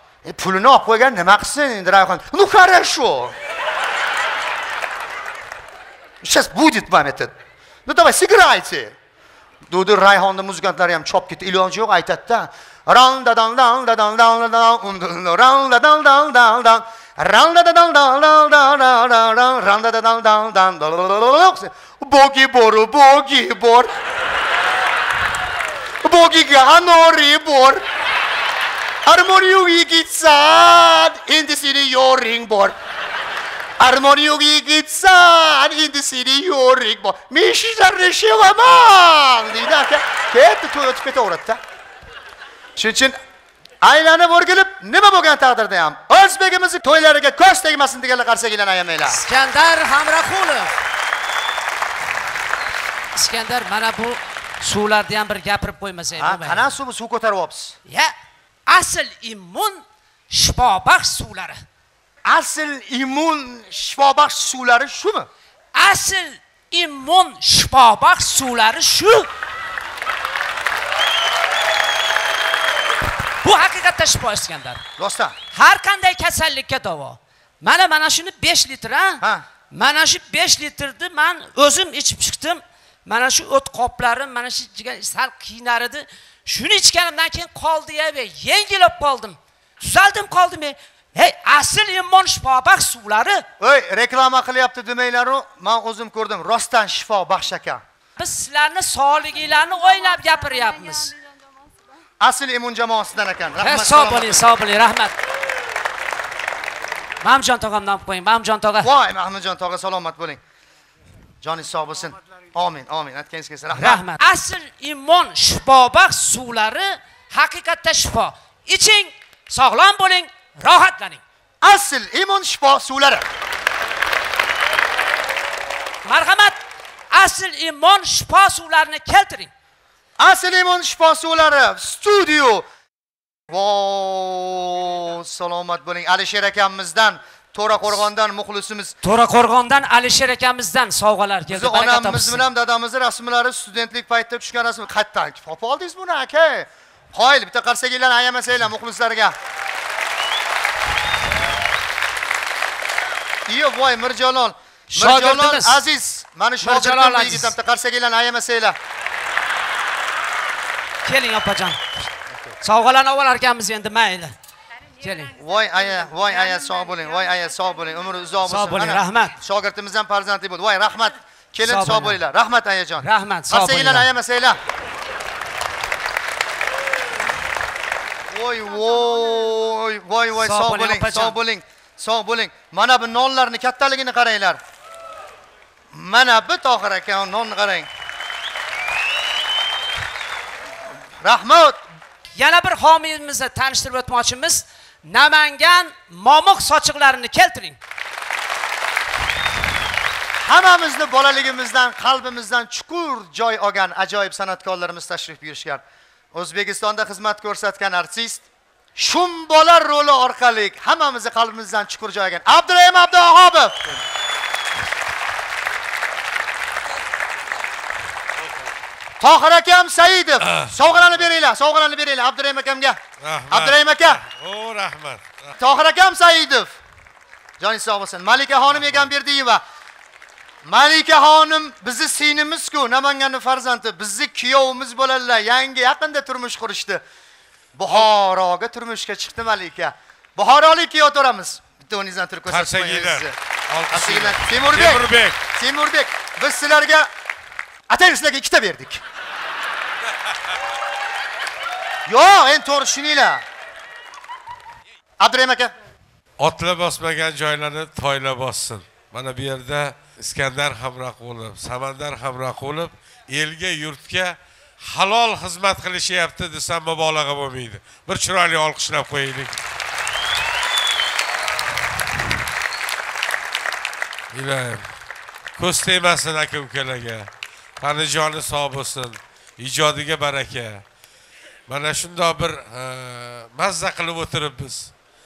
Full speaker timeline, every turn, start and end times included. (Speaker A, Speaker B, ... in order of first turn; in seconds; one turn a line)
Speaker A: 0.2-3.3
Speaker A: 6.2-7.3
Speaker A: 7.9-8.9
Speaker A: 9.7-23.9
Speaker A: 26.0-27.9
Speaker A: 29.1-32.8
Speaker A: 33.8-41.6
Speaker A: 42.8-43.2
Speaker A: 43.8-49.2
Speaker B: 49.1-50.7
Speaker B: 53.1-56.6
Speaker A: 56.2-57.8
Speaker B: 57.9-58.1
Speaker B: 58.7-61.6
Speaker A: 62.2-65.3
Speaker B: 65.8-69.3
Speaker B: 73.4-74.8
Speaker A: 75.0-75.3
Speaker B: 75.5-93.5
Speaker A: 93.6-97.8
Speaker B: 98.2-101.1
Speaker A: 102.2-104.5
Speaker B: 103.6-105.2
Speaker B: 107.2-108.9
Speaker A: 108.8-110.4
Speaker A: 111.4-114.0
Speaker B: 113.8-121.2
Speaker A: 121.6-123.2
Speaker B: 126.0-126.6
Speaker B: 127.1-129.5
Speaker A: 130.2-132.7
Speaker A: 133.5-138.9
Speaker B: 139.0-142.5
Speaker A: 141.5-149.3
Speaker A: 153.5-158.8
Speaker B: 154.9-155.8
Speaker B: 156.6-157.5
Speaker B: 161.1-161.8
Speaker B: 162.6-164.3
Speaker B: 165.0-165.3
Speaker A: 165.4-174.6
Speaker B: 168.4-169.3
Speaker B: 171.6-172.2
Speaker B: 173.0-174.1
Speaker A: 178.3-184.6
Speaker B: 180.4-181.4
Speaker A: 185.9-187.9
Speaker A: 191.2-191.8
Speaker B: 192.3-197.8
Speaker A: 200.4-205.8
Speaker A: 206.3-208.4
Speaker A: 209.0-214.0
Speaker A: 219.2-224.2
Speaker C: 220.4-221.2
Speaker C: 223.2-225.2
Speaker A: 225.6-226.7
Speaker A: 227.6-229.6
Speaker C: 228.8-229.1
Speaker A: 230.7-237.0
Speaker A: 237.8-243.3
Speaker C: 242.5-245.4
Speaker A: 243.9-247.1
Speaker A: 247.9-249.0
Speaker A: 252.1-253.4
Speaker A: 255.2-255.7
Speaker C: 256.4-269.6
Speaker C: 274.3-274.9
Speaker C: 275.6-277.3
Speaker C: 277.8-280.8
Speaker C: 281.7-284.9